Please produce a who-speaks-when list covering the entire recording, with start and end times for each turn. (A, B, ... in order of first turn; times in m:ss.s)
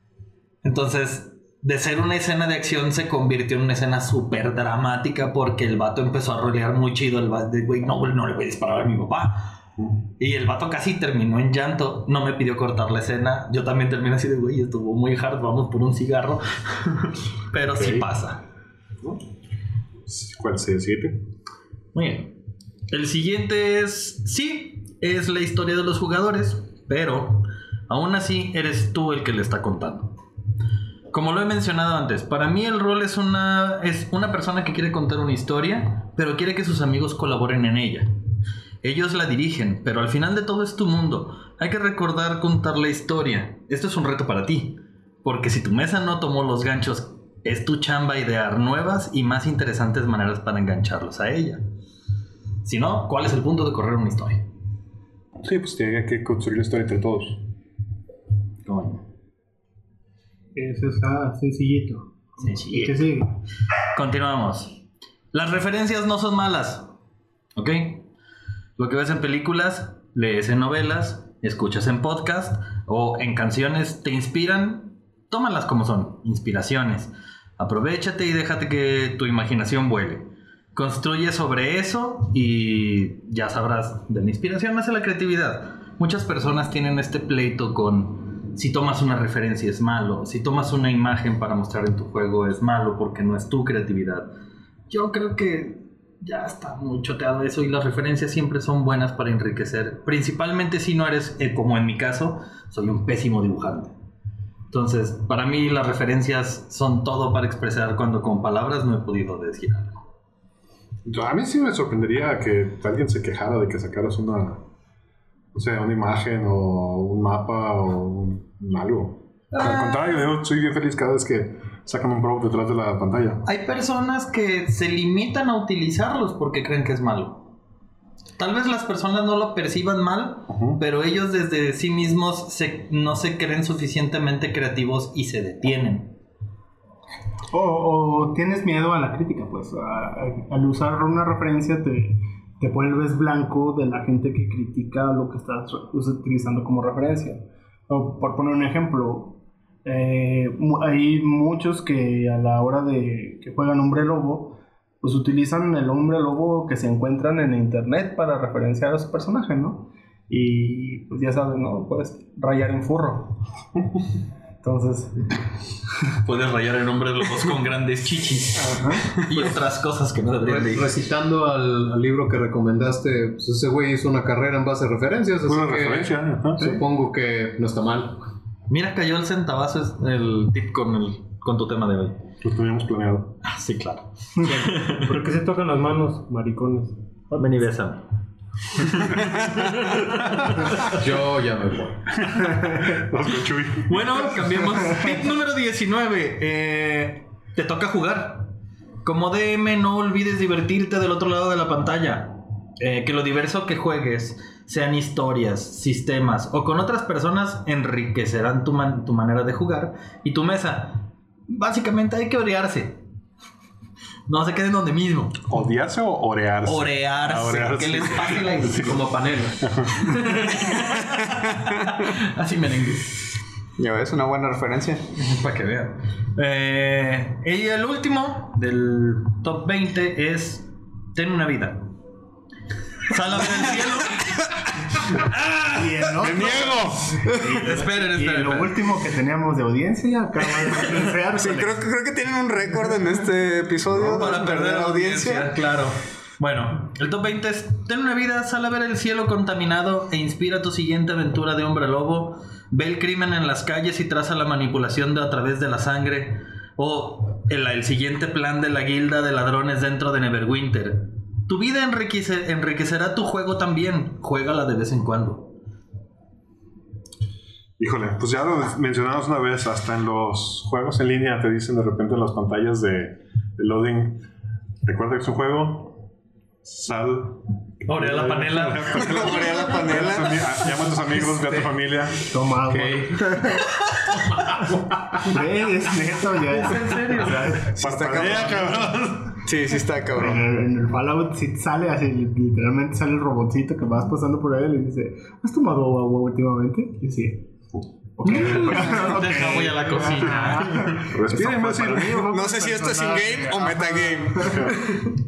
0:00.6-0:09.5 A
0:10.2-0:18.4 A
0:17.8-0:18.1 B
0:20.1-0:21.2 B
0:21.9-0:22.4 A
0:22.9-0:30.2 A
0:31.1-0:38.2 A
0:38.8-0:51.6 A
0:52.6-0:54.5 A
0:55.4-0:57.4 B
0:58.7-0:59.0 A
1:00.6-1:03.3 C
1:02.4-1:03.1 A
1:03.9-1:04.8 A
1:05.3-1:06.9 A
1:07.6-1:08.1 A
1:08.8-1:34.3 A
1:34.9-1:44.0 A
1:44.7-1:50.0 A
1:51.1-1:54.6 B
1:55.5-2:03.4 B
1:59.5-2:00.2 A
2:03.4-2:07.5 A
2:08.4-2:16.2 A
2:10.5-2:10.8 B
2:17.5-2:43.4 C
2:44.6-2:45.4 C
2:46.2-2:50.9 A
2:48.6-2:49.0 C
2:50.4-2:58.3 D
2:55.5-2:56.6 B
2:58.7-3:02.2 A
3:02.4-3:03.4 B
3:03.4-3:05.0 A
3:05.0-3:07.0 E
3:07.4-3:08.0 A
3:08.8-3:09.8 A
3:11.0-3:12.0 D
3:12.2-3:14.0 B
3:13.9-3:18.5 A
3:19.0-3:33.0 A
3:34.3-3:35.5 A
3:35.5-3:39.0 B
3:36.6-3:39.0 A
3:38.7-3:39.7 D
3:39.6-3:40.1 B
3:40.0-3:43.1 A
3:43.8-3:45.1 F
3:45.1-3:51.9 A
3:53.0-3:54.5 A
3:55.2-3:55.6 A
3:55.8-4:01.8 C
3:56.2-3:56.9 B
3:57.3-3:58.8 A
4:01.4-4:05.6 F
4:03.9-4:25.6 A
4:27.8-4:34.2 B
4:34.8-4:36.0 B
4:36.6-4:42.3 B
4:37.8-4:40.2 A
4:39.0-4:40.7 F
4:42.3-4:43.6 C
4:42.7-4:43.2 D
4:45.1-4:47.7 C
4:47.7-4:50.4 F
4:47.8-4:49.4 B
4:50.2-4:57.5 C
4:58.2-5:04.7 C
4:58.2-5:01.1 A
5:01.0-5:02.4 B
5:02.2-5:05.1 F